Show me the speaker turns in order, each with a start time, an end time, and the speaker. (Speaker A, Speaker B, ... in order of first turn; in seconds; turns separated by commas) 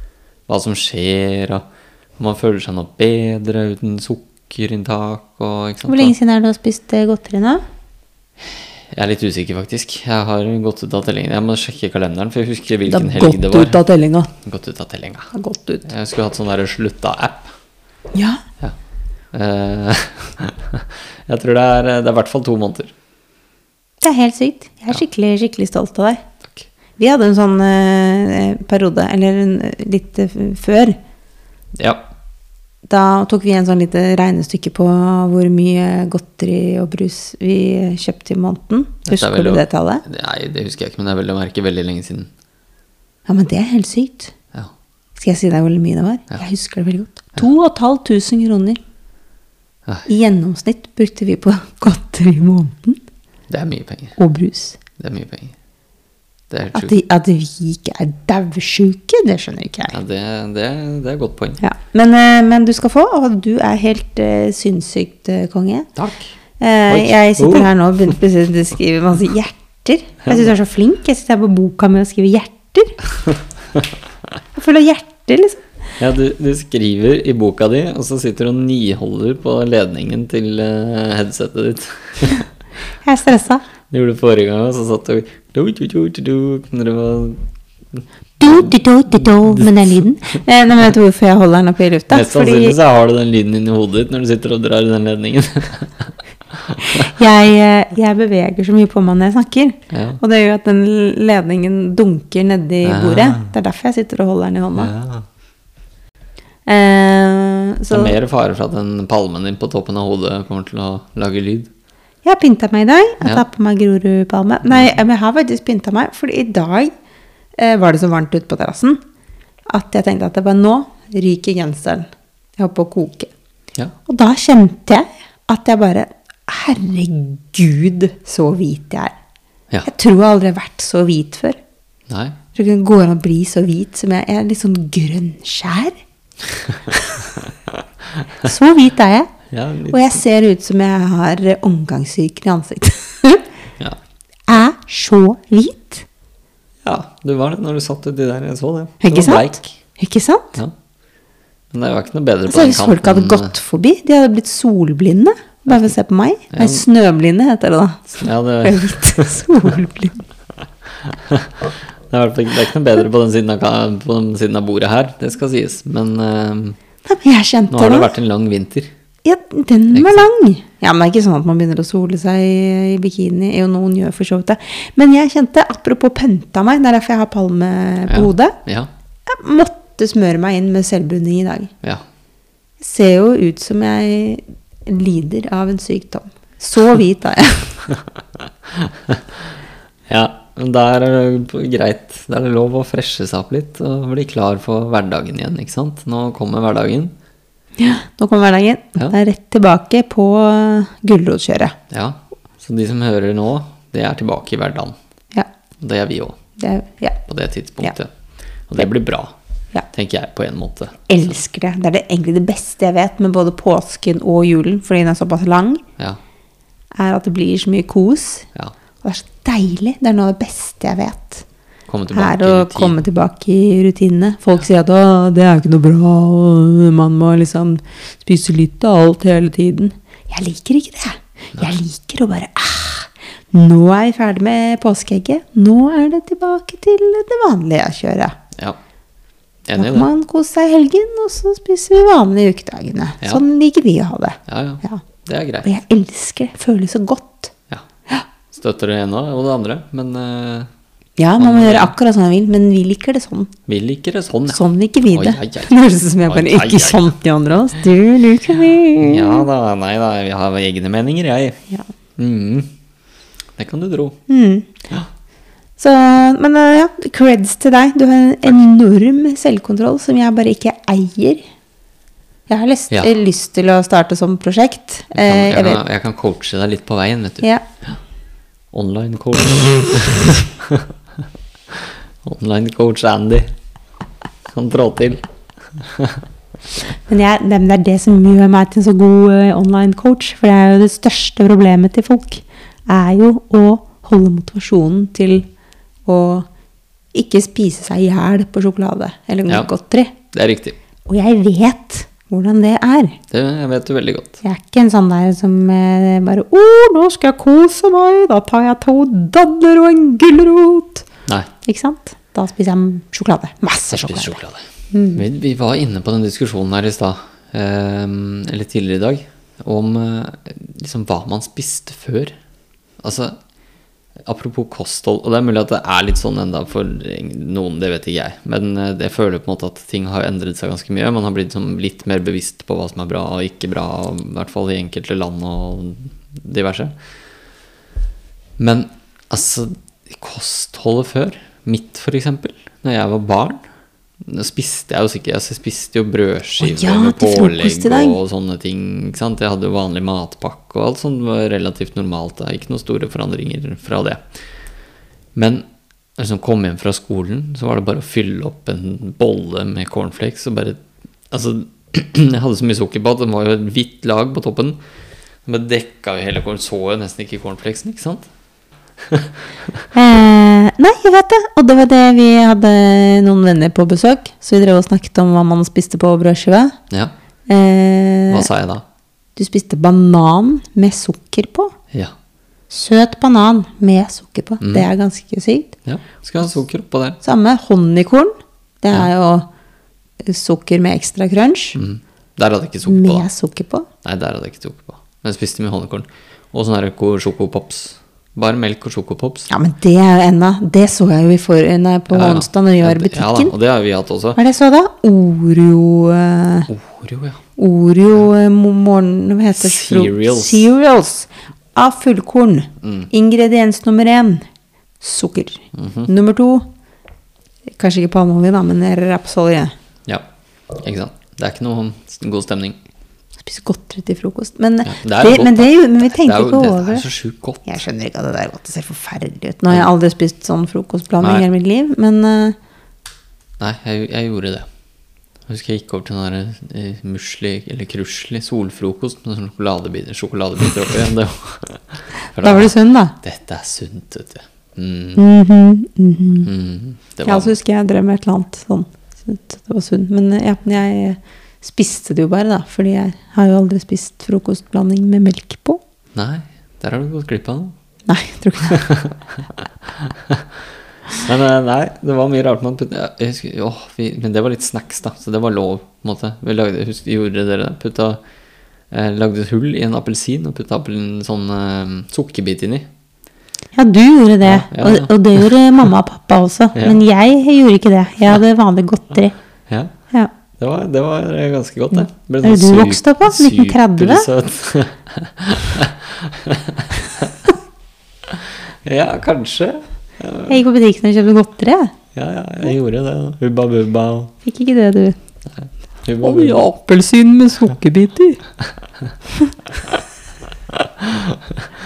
Speaker A: 0.5-1.6, Speaker A: 2.2-6.1, Speaker B: 5.9-7.6, Speaker A: 8.9-13.8, Speaker B: 12.9-14.3, Speaker A: 14.4-15.3, Speaker B: 15.3-15.9, Speaker A: 15.8-17.5, Speaker B: 18.1-18.4, Speaker A: 19.3-22.9, Speaker B: 24.0-26.2, Speaker B: 27.0-31.0, Speaker A: 31.8-32.0, Speaker B: 32.9-40.0, Speaker A: 39.0-42.3, Speaker B: 43.3-44.3, Speaker B: 45.1-48.8, Speaker B: 50.0-53.0, Speaker A: 53.5-54.1, Speaker B: 54.2-54.8, Speaker A: 55.0-55.5, Speaker A: 56.5-57.0, Speaker B: 56.7-60.0, Speaker A: 59.9-61.6, Speaker B: 61.6-65.9, Speaker A: 66.0-66.3, Speaker B: 66.6-73.0, Speaker A: 66.9-67.7, Speaker B: 74.5-75.6, Speaker A: 76.0-82.4, Speaker B: 83.0-83.6, Speaker A: 83.9-87.4, Speaker B: 88.4-92.8, Speaker A: 88.4-89.7, Speaker A: 92.1-97.1, Speaker B: 96.8-104.9, Speaker A: 99.9-100.2, Speaker A: 102.8-103.5, Speaker A: 104.8-105.2, Speaker B: 106.7-108.2, Speaker A: 107.9-111.7, Speaker B: 112.2-116.9, Speaker B: 117.6-119.0, Speaker B: 119.7-123.3, Speaker B: 124.1-129.2, Speaker B: 129.8-131.6, Speaker A: 132.1-132.4, Speaker B: 132.5-135.9, Speaker A: 136.5-138.4, Speaker B: 136.9-137.3, Speaker B: 138.4-139.3, Speaker A: 139.5-140.1, Speaker B: 139.9-143.4, Speaker B: 144.5-146.0, Speaker A: 146.8-149.7, Speaker B: 149.0-150.6, Speaker A: 151.7-153.5, Speaker B: 152.5-160.2, Speaker A: 156.5-156.8, Speaker A: 158.1-159.6, Speaker A: 161.0-166.8, Speaker B: 167.0-168.1, Speaker A: 167.7-168.9, Speaker B: 169.2-178.6, Speaker A: 169.9-170.3, Speaker A: 178.1-178.9, Speaker B: 179.2-181.7, Speaker B: 182.8-187.9, Speaker A: 188.7-189.2, Speaker A: 190.1-197.1, Speaker B: 197.8-201.8, Speaker A: 201.9-204.9, Speaker A: 205.8-206.4, Speaker B: 206.6-207.2, Speaker A: 207.3-208.1, Speaker A: 208.7-209.3, Speaker A: 209.9-211.3, Speaker B: 211.1-215.8, Speaker B: 216.9-218.5, Speaker B: 219.0-221.4, Speaker A: 221.9-223.0, Speaker B: 222.1-238.4, Speaker A: 239.7-240.1, Speaker B: 239.8-245.0, Speaker A: 244.5-245.7, Speaker B: 245.6-247.5, Speaker A: 248.5-250.7, Speaker B: 251.2-253.5, Speaker A: 251.4-251.9, Speaker A: 253.7-257.1, Speaker B: 254.5-259.5, Speaker A: 259.0-261.6, Speaker A: 262.2-262.7, Speaker A: 263.6-264.2, Speaker B: 264.3-264.7, Speaker B: 265.8-271.4, Speaker B: 272.5-275.8, Speaker A: 275.1-277.9, Speaker A: 278.7-280.9, Speaker A: 281.7-283.5, Speaker A: 284.5-285.2, Speaker A: 285.8-286.2, Speaker B: 287.1-295.5, Speaker B: 296.1-296.5, Speaker B: 297.1-300.1, Speaker A: 300.3-300.8, Speaker B: 301.1-303.2, Speaker A: 303.3-304.4, Speaker B: 304.4-311.1, Speaker B: 311.6-314.4, Speaker A: 313.9-322.4, Speaker B: 314.9-315.2, Speaker A: 323.0-323.4, Speaker A: 324.2-336.9, Speaker A: 338.6-343.6, Speaker A: 344.2-354.2, Speaker B: 346.6-348.2, Speaker A: 355.4-355.6, Speaker A: 356.2-360.8, Speaker A: 361.3-364.8, Speaker A: 365.4-368.3, Speaker A: 369.1-369.8, Speaker B: 369.9-376.7, Speaker B: 377.5-378.5, Speaker A: 378.3-378.8, Speaker B: 379.4-381.7, Speaker B: 382.7-385.7, Speaker A: 384.6-384.9, Speaker A: 385.9-387.2, Speaker B: 387.2-389.5, Speaker B: 390.2-391.8, Speaker A: 391.7-393.3, Speaker B: 392.9-393.9, Speaker A: 394.0-399.5, Speaker B: 399.5-403.5, Speaker A: 402.1-404.4, Speaker B: 404.4-406.7, Speaker A: 406.7-407.4, Speaker B: 407.6-414.4, Speaker A: 409.6-410.7, Speaker A: 412.8-413.1, Speaker B: 415.0-416.6, Speaker A: 415.7-416.1, Speaker B: 417.8-419.7, Speaker A: 420.8-422.8, Speaker B: 423.4-427.1, Speaker A: 424.9-427.8, Speaker B: 427.6-432.6, Speaker A: 433.6-434.7, Speaker A: 435.5-445.2, Speaker B: 442.4-443.1, Speaker B: 445.1-446.5, Speaker A: 446.4-447.6, Speaker B: 447.2-455.8, Speaker A: 456.1-457.7, Speaker B: 458.1-458.8, Speaker A: 458.7-460.5, Speaker A: 461.1-468.2, Speaker A: 468.9-472.9, Speaker B: 473.7-479.4, Speaker A: 474.4-475.4, Speaker A: 480.6-487.5, Speaker B: 481.9-484.3, Speaker A: 488.3-490.6, Speaker B: 490.5-491.9, Speaker A: 492.1-494.3, Speaker B: 494.4-495.1, Speaker A: 495.6-496.7, Speaker B: 496.2-498.4, Speaker A: 500.7-501.6